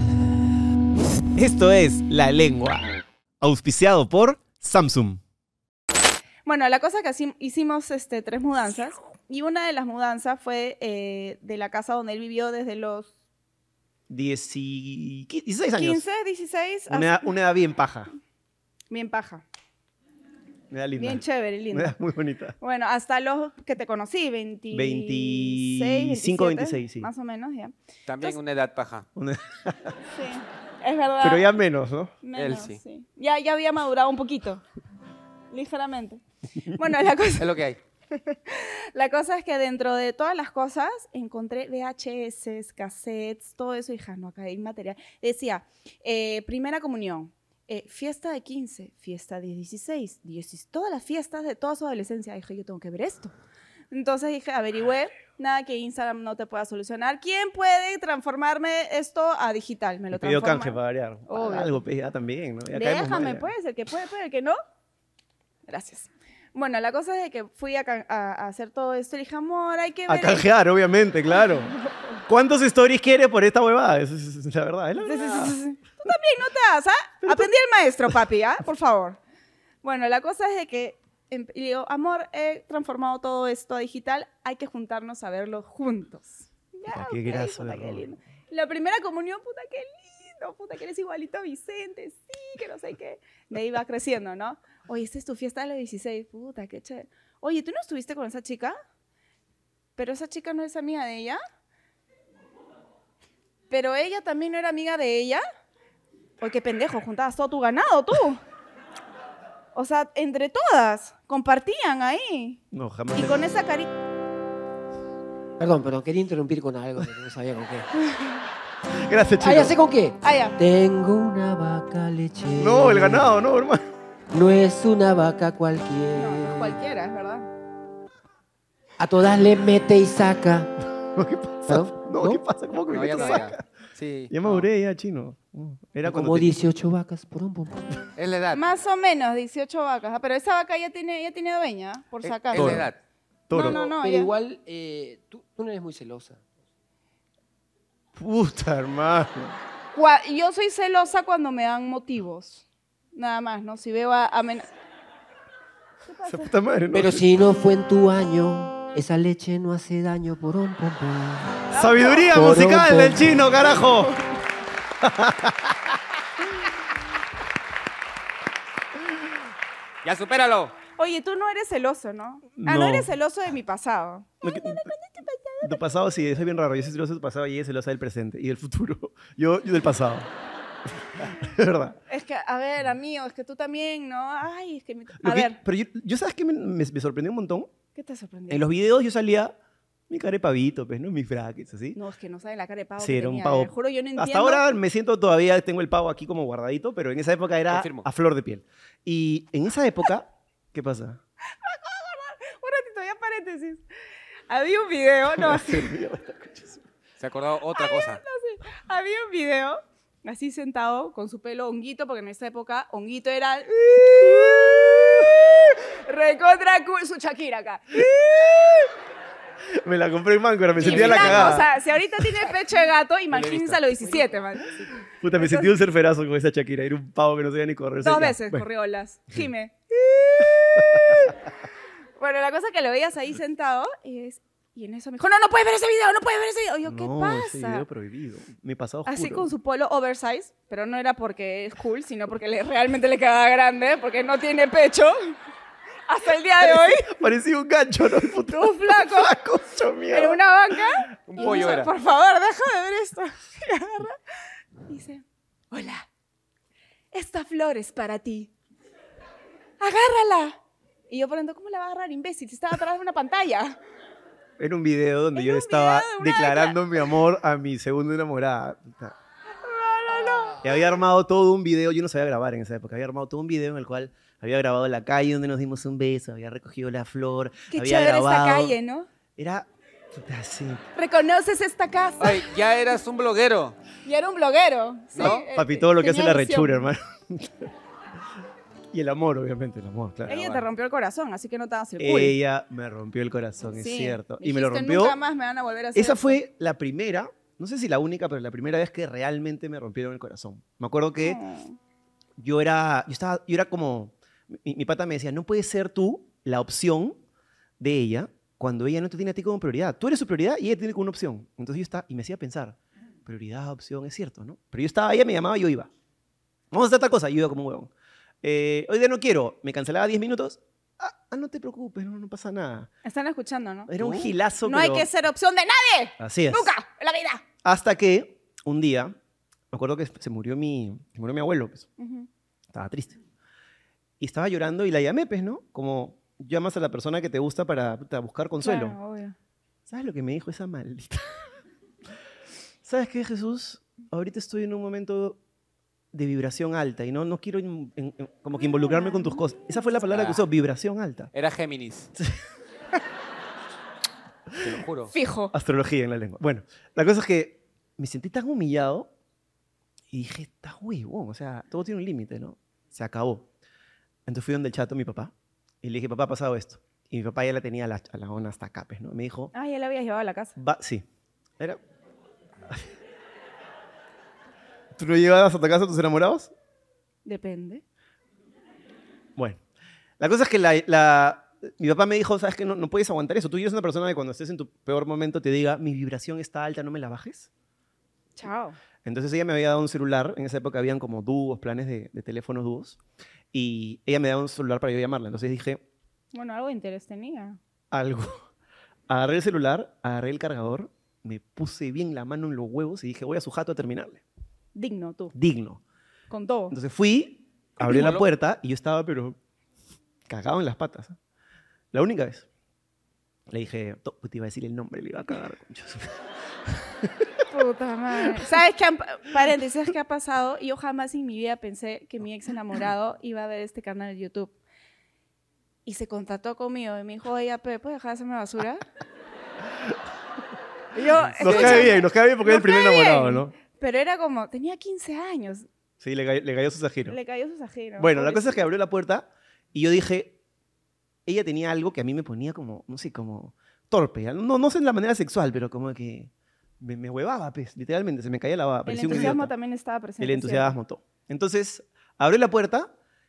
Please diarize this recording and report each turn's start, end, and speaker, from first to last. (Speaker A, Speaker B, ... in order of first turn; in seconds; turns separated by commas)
Speaker A: 1.4-5.2, Speaker B: 6.5-13.1, Speaker A: 14.1-16.0, Speaker B: 15.8-17.3, Speaker A: 16.9-18.1, Speaker B: 18.9-19.4, Speaker A: 20.7-22.6, Speaker B: 21.0-21.9, Speaker B: 22.6-28.4, Speaker A: 24.7-27.1, Speaker C: 28.1-29.1, Speaker A: 29.2-30.0, Speaker B: 30.1-31.5, Speaker A: 31.2-32.2, Speaker B: 32.2-34.6, Speaker C: 32.4-32.8, Speaker B: 35.5-36.2, Speaker B: 36.7-37.5, Speaker C: 37.4-37.8, Speaker B: 38.2-53.3, Speaker B: 53.9-61.8, Speaker A: 60.1-63.5, Speaker B: 62.7-64.6, Speaker B: 65.7-70.5, Speaker A: 70.1-75.6, Speaker B: 75.0-79.2, Speaker A: 77.2-77.5, Speaker B: 79.8-98.8, Speaker A: 86.9-88.1, Speaker B: 100.0-101.4, Speaker B: 103.7-105.4, Speaker B: 106.4-108.4, Speaker B: 109.7-112.6, Speaker A: 112.7-113.4, Speaker B: 113.1-113.9, Speaker D: 115.6-117.9, Speaker A: 119.0-119.8, Speaker D: 119.4-123.3, Speaker B: 120.2-120.6, Speaker A: 122.6-123.8, Speaker D: 124.3-126.8, Speaker B: 126.2-127.5, Speaker D: 129.0-130.7, Speaker A: 131.0-133.6, Speaker D: 131.7-132.4, Speaker C: 132.9-134.7, Speaker A: 134.3-136.6, Speaker D: 136.0-138.0, Speaker C: 138.2-138.6, Speaker B: 138.5-142.9, Speaker C: 142.2-143.0, Speaker A: 142.5-142.9, Speaker A: 143.5-143.8, Speaker B: 143.5-144.3, Speaker D: 143.5-146.4, Speaker A: 148.2-149.5, Speaker B: 149.9-154.7, Speaker B: 156.0-156.5, Speaker A: 156.3-157.2, Speaker D: 156.9-161.6, Speaker B: 161.7-162.3, Speaker A: 161.8-164.1, Speaker D: 162.3-163.3, Speaker B: 163.6-164.3, Speaker A: 165.0-165.8, Speaker C: 170.0-170.8, Speaker B: 171.0-175.8, Speaker A: 172.6-173.1, Speaker A: 174.4-174.9, Speaker A: 175.6-180.3, Speaker A: 181.2-182.0, Speaker B: 182.1-185.6, Speaker A: 185.2-187.7, Speaker B: 187.9-188.7, Speaker A: 188.5-189.5, Speaker A: 190.1-192.0, Speaker B: 191.9-194.7, Speaker A: 193.0-201.2, Speaker C: 197.7-198.1, Speaker B: 201.6-203.8, Speaker B: 204.5-205.9, Speaker A: 205.3-206.8, Speaker C: 207.2-208.2, Speaker B: 207.7-218.9, Speaker A: 214.0-215.3, Speaker A: 219.8-221.7, Speaker C: 220.8-221.6, Speaker B: 220.9-224.8, Speaker C: 223.3-224.2, Speaker A: 225.1-228.7, Speaker B: 225.3-225.7, Speaker B: 228.0-231.4, Speaker A: 230.7-231.3, Speaker B: 232.2-237.9, Speaker A: 236.8-239.5, Speaker B: 239.1-245.4, Speaker B: 246.1-247.1, Speaker A: 246.6-250.4, Speaker B: 248.4-249.3, Speaker B: 250.1-254.2, Speaker C: 251.3-251.9, Speaker B: 254.8-256.0, Speaker B: 257.1-258.5, Speaker B: 259.8-260.6, Speaker B: 261.1-263.8, Speaker A: 264.6-269.1, Speaker B: 265.3-266.8, Speaker B: 269.6-270.8, Speaker A: 270.6-278.8, Speaker B: 277.7-279.1, Speaker A: 279.4-280.8, Speaker B: 281.0-282.4, Speaker C: 282.2-283.8, Speaker B: 284.0-286.9, Speaker C: 285.1-285.5, Speaker A: 285.2-287.7, Speaker A: 288.9-290.7, Speaker B: 290.3-292.4, Speaker A: 292.0-295.2, Speaker B: 293.8-296.4, Speaker A: 295.9-301.4, Speaker B: 301.2-301.8, Speaker A: 302.4-307.2, Speaker A: 307.8-315.9, Speaker A: 316.7-317.9, Speaker A: 318.4-322.9, Speaker B: 323.1-327.4, Speaker A: 323.9-325.1, Speaker A: 326.2-326.7, Speaker A: 327.6-329.1, Speaker A: 329.7-331.9, Speaker B: 332.0-332.3, Speaker A: 332.7-333.2, Speaker A: 334.2-339.0, Speaker B: 338.6-339.4, Speaker A: 339.9-341.4, Speaker A: 342.9-345.4, Speaker A: 346.1-351.3, Speaker B: 348.9-349.5, Speaker C: 350.1-350.4, Speaker C: 351.3-352.1, Speaker C: 354.6-355.1, Speaker B: 355.1-355.5, Speaker A: 355.5-359.1, Speaker A: 360.1-363.5, Speaker A: 364.3-369.5, Speaker B: 369.5-370.6, Speaker A: 370.6-371.1, Speaker A: 374.9-376.5, Speaker B: 377.2-377.8, Speaker A: 380.2-387.5, Speaker B: 388.4-388.8, Speaker A: 389.1-393.0, Speaker A: 393.5-395.8, Speaker B: 396.3-397.6, Speaker A: 397.9-398.4, Speaker A: 399.1-404.2, Speaker B: 404.8-405.3, Speaker A: 405.3-405.8, Speaker B: 406.3-406.8, Speaker A: 406.7-409.4, Speaker C: 407.8-408.2, Speaker A: 410.3-411.2, Speaker A: 411.9-412.5, Speaker A: 413.5-416.1, Speaker A: 417.0-417.3, Speaker B: 417.5-424.6, Speaker B: 425.9-428.9, Speaker B: 430.9-435.7, Speaker A: 431.3-433.5, Speaker C: 431.4-431.9, Speaker A: 436.0-437.2, Speaker B: 437.1-438.6, Speaker A: 438.0-440.4, Speaker A: 441.3-449.5, Speaker B: 448.9-450.8, Speaker A: 450.2-452.9